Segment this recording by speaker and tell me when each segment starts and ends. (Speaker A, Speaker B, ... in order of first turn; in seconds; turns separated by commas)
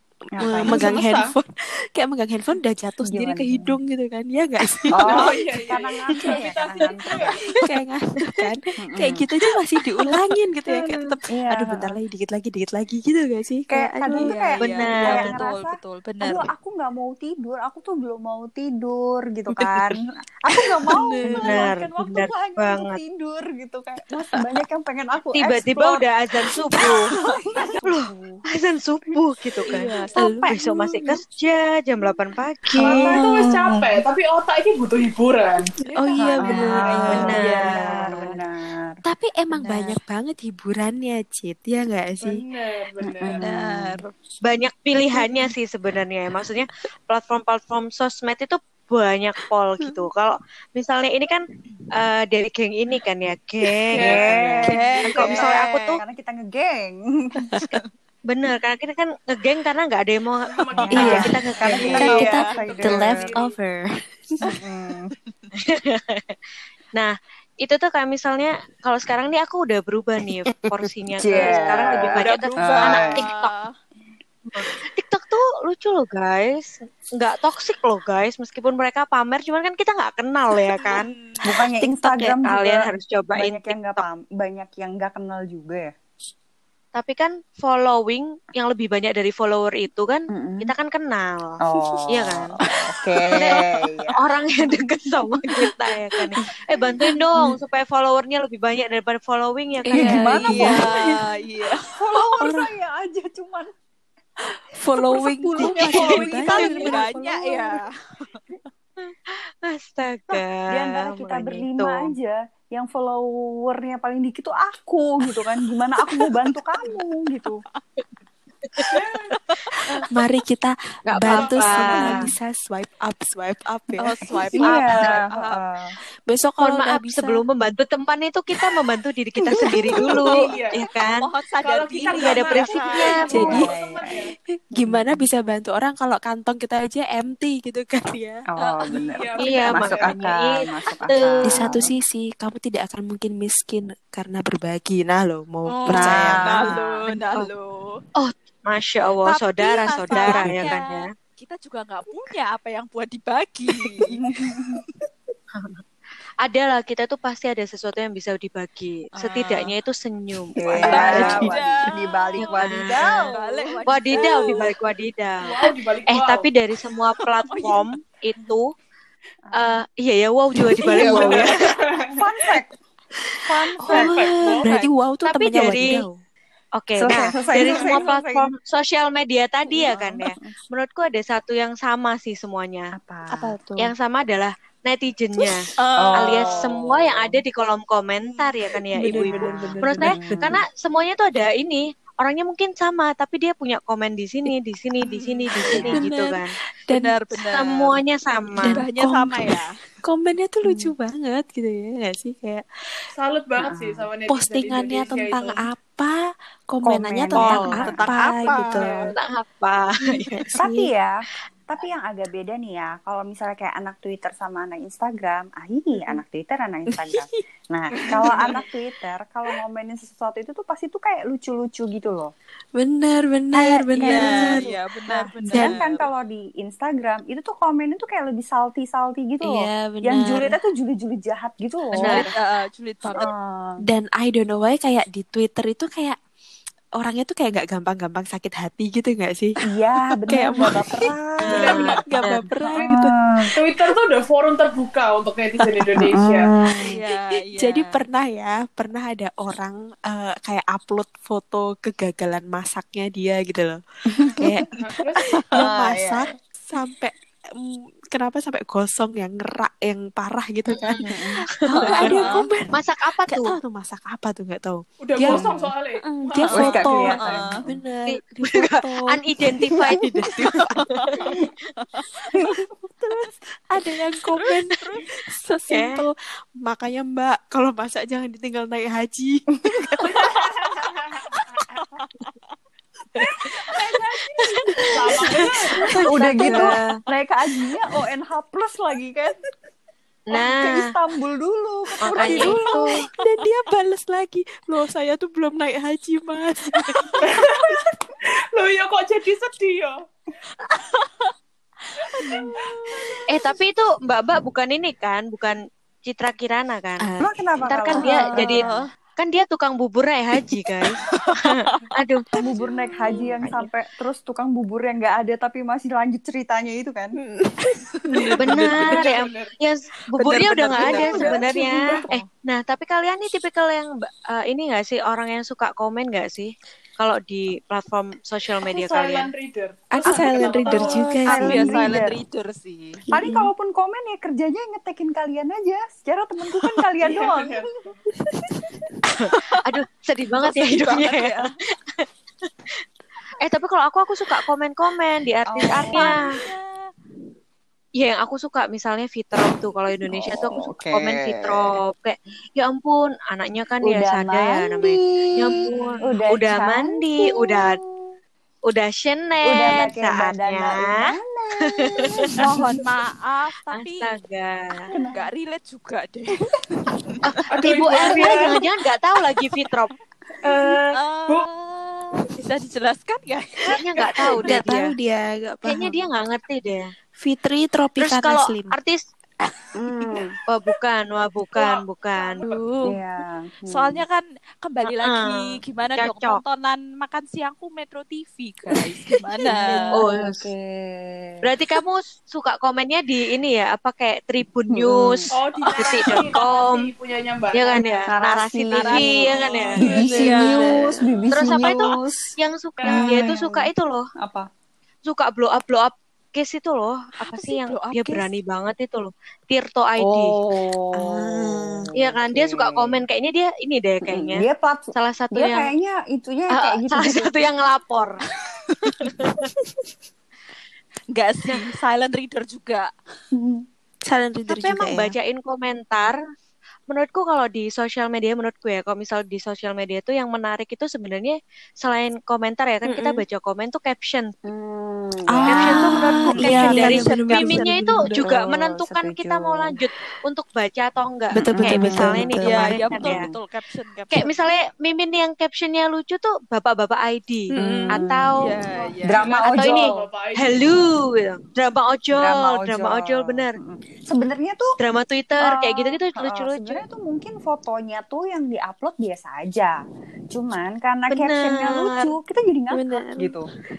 Speaker A: 0.3-0.9, Speaker B: 0.4-5.4, Speaker C: 0.6-1.3, Speaker A: 3.0-3.8, Speaker A: 4.9-7.3, Speaker C: 5.0-7.4, Speaker B: 7.5-14.9, Speaker A: 8.8-9.2, Speaker A: 10.7-12.0, Speaker A: 13.7-26.0, Speaker D: 14.1-16.5, Speaker E: 14.6-15.3, Speaker B: 20.9-21.7, Speaker E: 21.2-23.0, Speaker E: 25.3-27.1, Speaker A: 27.3-28.4, Speaker E: 27.8-33.1, Speaker B: 29.7-31.2, Speaker A: 32.8-34.0, Speaker C: 32.8-37.2, Speaker B: 35.9-38.2, Speaker A: 36.2-39.0, Speaker D: 36.5-38.3, Speaker E: 37.0-38.1, Speaker B: 39.0-42.4, Speaker D: 39.5-40.0, Speaker C: 42.2-43.4, Speaker A: 43.0-44.0, Speaker D: 43.4-44.1, Speaker E: 44.4-54.2, Speaker C: 53.9-54.3, Speaker A: 54.0-57.6, Speaker B: 54.3-54.7, Speaker D: 54.6-55.5, Speaker E: 55.1-56.0, Speaker E: 58.3-62.3, Speaker C: 60.5-63.5, Speaker A: 60.8-63.4, Speaker B: 60.9-63.9, Speaker D: 61.0-61.2, Speaker D: 61.8-62.5, Speaker A: 64.4-65.1, Speaker E: 65.6-66.3, Speaker E: 67.0-73.5, Speaker A: 71.2-73.2, Speaker D: 72.2-73.7, Speaker E: 74.5-81.1, Speaker D: 80.7-81.4, Speaker A: 81.4-85.9, Speaker E: 81.8-84.0, Speaker E: 86.9-91.6, Speaker A: 90.3-90.7, Speaker A: 91.6-94.2, Speaker E: 92.1-92.5, Speaker E: 94.2-100.7, Speaker B: 99.8-101.1, Speaker A: 99.9-101.1, Speaker D: 100.4-101.9, Speaker A: 101.9-103.7, Speaker B: 102.3-102.7, Speaker B: 104.8-107.0, Speaker A: 105.1-107.8, Speaker D: 105.5-108.5, Speaker E: 109.0-112.1, Speaker A: 110.7-117.6, Speaker C: 118.9-119.4, Speaker B: 120.1-125.1, Speaker E: 121.0-122.2, Speaker A: 121.3-122.3, Speaker D: 124.0-125.6, Speaker A: 124.6-125.9, Speaker B: 126.3-127.4, Speaker E: 126.6-131.3, Speaker B: 129.6-130.3, Speaker C: 130.2-130.9, Speaker D: 131.0-133.5, Speaker C: 131.6-134.3, Speaker E: 132.1-133.6, Speaker B: 133.3-133.8, Speaker A: 133.3-134.2, Speaker B: 134.5-138.4, Speaker A: 134.8-135.3, Speaker A: 138.5-141.9, Speaker D: 138.6-139.0, Speaker C: 139.0-140.3, Speaker E: 139.4-141.7, Speaker B: 141.4-146.7, Speaker D: 145.7-148.0, Speaker A: 145.9-147.0, Speaker E: 148.2-151.1, Speaker D: 149.2-154.2, Speaker A: 150.2-150.7, Speaker A: 154.2-154.8, Speaker E: 155.5-155.8, Speaker E: 156.4-161.6, Speaker D: 159.3-159.7, Speaker A: 160.6-163.8, Speaker D: 160.8-164.7, Speaker B: 160.8-161.5, Speaker E: 162.4-163.1, Speaker E: 163.9-168.7, Speaker C: 165.4-166.5, Speaker D: 167.4-167.8, Speaker E: 169.5-171.5, Speaker C: 170.9-172.2, Speaker A: 171.0-171.5, Speaker B: 171.1-171.3, Speaker A: 172.1-172.7, Speaker B: 173.2-176.2, Speaker A: 173.4-174.2, Speaker C: 173.8-174.7, Speaker E: 175.2-176.1, Speaker E: 176.8-182.9, Speaker A: 177.0-178.5, Speaker A: 179.8-180.5, Speaker A: 182.9-183.6, Speaker B: 183.3-183.9, Speaker E: 183.8-196.6, Speaker D: 185.8-186.3, Speaker A: 185.9-187.3, Speaker B: 188.9-190.5, Speaker A: 189.1-190.6, Speaker B: 195.1-197.2, Speaker A: 195.7-196.0, Speaker D: 196.9-197.9, Speaker E: 197.4-198.8, Speaker B: 198.6-202.6, Speaker D: 198.7-199.7, Speaker A: 200.6-200.9, Speaker C: 203.1-205.7, Speaker A: 203.7-204.1, Speaker B: 204.3-206.2, Speaker B: 206.7-209.0, Speaker A: 206.8-208.1, Speaker E: 207.3-207.8, Speaker D: 207.8-208.7, Speaker C: 208.8-209.1, Speaker E: 209.1-210.4, Speaker B: 210.2-210.9, Speaker A: 210.6-211.1, Speaker A: 211.7-222.3, Speaker B: 218.1-218.6, Speaker D: 218.2-218.5, Speaker B: 222.7-224.7, Speaker A: 223.5-232.2, Speaker D: 224.0-226.1, Speaker B: 225.5-225.8, Speaker B: 229.4-230.5, Speaker E: 232.0-232.3, Speaker D: 232.0-233.3, Speaker A: 233.1-233.8, Speaker B: 233.8-236.2, Speaker B: 237.0-239.6, Speaker A: 239.7-242.0, Speaker B: 240.2-243.2, Speaker E: 241.4-242.5, Speaker C: 241.5-242.0, Speaker A: 242.7-243.5, Speaker C: 243.5-246.5, Speaker A: 246.0-247.0, Speaker B: 246.7-262.8, Speaker D: 246.8-248.0, Speaker A: 254.1-254.6, Speaker C: 254.8-255.2, Speaker A: 255.5-256.3, Speaker E: 260.7-262.1, Speaker A: 260.9-262.4, Speaker D: 261.7-262.5, Speaker E: 262.7-263.6, Speaker B: 263.3-269.2, Speaker C: 265.0-267.2, Speaker A: 265.2-265.7, Speaker A: 266.5-267.7, Speaker D: 266.8-267.6, Speaker E: 268.1-271.4, Speaker D: 270.8-271.2, Speaker A: 272.3-272.7, Speaker B: 273.0-281.6, Speaker D: 274.7-275.0, Speaker E: 275.7-276.0, Speaker C: 280.0-281.8, Speaker A: 283.6-289.4, Speaker E: 284.4-284.8, Speaker C: 284.9-285.9, Speaker E: 286.0-286.9, Speaker B: 286.4-286.7, Speaker E: 290.3-290.9, Speaker A: 290.3-292.6, Speaker E: 292.0-292.9, Speaker B: 292.1-297.4, Speaker C: 297.2-299.9, Speaker D: 300.7-301.3, Speaker D: 302.1-303.1, Speaker C: 302.6-302.9, Speaker B: 302.9-303.2, Speaker E: 303.3-307.1, Speaker B: 307.0-308.8, Speaker A: 307.2-308.7, Speaker E: 307.6-308.6, Speaker D: 308.4-308.8, Speaker E: 309.2-312.4, Speaker A: 312.4-317.1, Speaker B: 312.6-313.3, Speaker D: 317.7-318.3, Speaker B: 318.1-318.8, Speaker E: 318.4-329.3, Speaker C: 318.6-319.5, Speaker B: 320.2-321.4, Speaker A: 320.7-322.2, Speaker C: 328.7-331.3, Speaker B: 329.9-331.9, Speaker A: 330.1-332.2, Speaker D: 330.7-333.0, Speaker A: 333.1-337.7, Speaker B: 333.1-333.5, Speaker C: 337.0-337.9, Speaker B: 338.2-338.6, Speaker E: 339.2-342.0, Speaker D: 340.4-341.5, Speaker E: 343.4-346.2, Speaker A: 345.5-346.2, Speaker D: 345.9-346.9, Speaker E: 348.0-357.8, Speaker A: 350.1-351.6, Speaker A: 353.8-358.1, Speaker E: 358.7-361.0, Speaker A: 359.4-362.8, Speaker E: 361.8-362.2, Speaker D: 362.4-364.1, Speaker E: 363.8-364.9, Speaker A: 364.9-365.3, Speaker D: 365.0-367.2, Speaker E: 367.2-369.9, Speaker C: 367.5-368.6, Speaker E: 370.4-370.8, Speaker C: 370.4-371.5, Speaker D: 370.9-373.8, Speaker E: 373.6-374.6, Speaker C: 374.0-374.2, Speaker D: 374.3-374.9, Speaker B: 374.4-375.9, Speaker E: 375.6-376.9, Speaker B: 377.2-378.8, Speaker E: 378.0-379.0, Speaker A: 379.7-380.3, Speaker E: 380.5-382.4, Speaker C: 381.5-382.6, Speaker D: 382.4-383.0, Speaker A: 382.8-384.0, Speaker D: 383.7-390.0, Speaker E: 384.9-386.4, Speaker A: 389.4-391.4, Speaker E: 389.9-390.5, Speaker E: 391.4-395.2, Speaker A: 394.7-395.3, Speaker C: 395.3-398.1, Speaker E: 395.8-396.9, Speaker E: 397.5-400.4, Speaker A: 398.1-404.5, Speaker D: 398.7-401.1, Speaker C: 399.3-400.2, Speaker B: 400.1-400.9, Speaker E: 401.3-404.1, Speaker C: 402.8-403.2, Speaker E: 405.0-410.3, Speaker D: 407.3-408.3, Speaker A: 410.0-413.0, Speaker B: 410.9-411.9, Speaker E: 412.0-415.7, Speaker A: 414.1-417.3, Speaker E: 416.5-418.2, Speaker E: 418.9-419.5, Speaker D: 421.1-422.9, Speaker A: 423.3-423.6, Speaker B: 424.1-425.1, Speaker E: 424.5-426.2, Speaker E: 426.9-434.3, Speaker A: 434.4-439.8, Speaker B: 435.3-438.2, Speaker E: 435.5-443.3, Speaker B: 441.3-442.8, Speaker A: 441.5-443.3, Speaker D: 441.7-444.4, Speaker E: 444.1-448.4, Speaker B: 447.6-448.0, Speaker D: 447.6-449.3, Speaker A: 449.0-450.1, Speaker C: 449.2-450.7, Speaker E: 449.4-453.6, Speaker A: 452.1-454.8, Speaker E: 454.8-456.8, Speaker A: 455.4-459.8, Speaker A: 460.3-463.5, Speaker E: 461.1-462.1, Speaker B: 462.7-463.4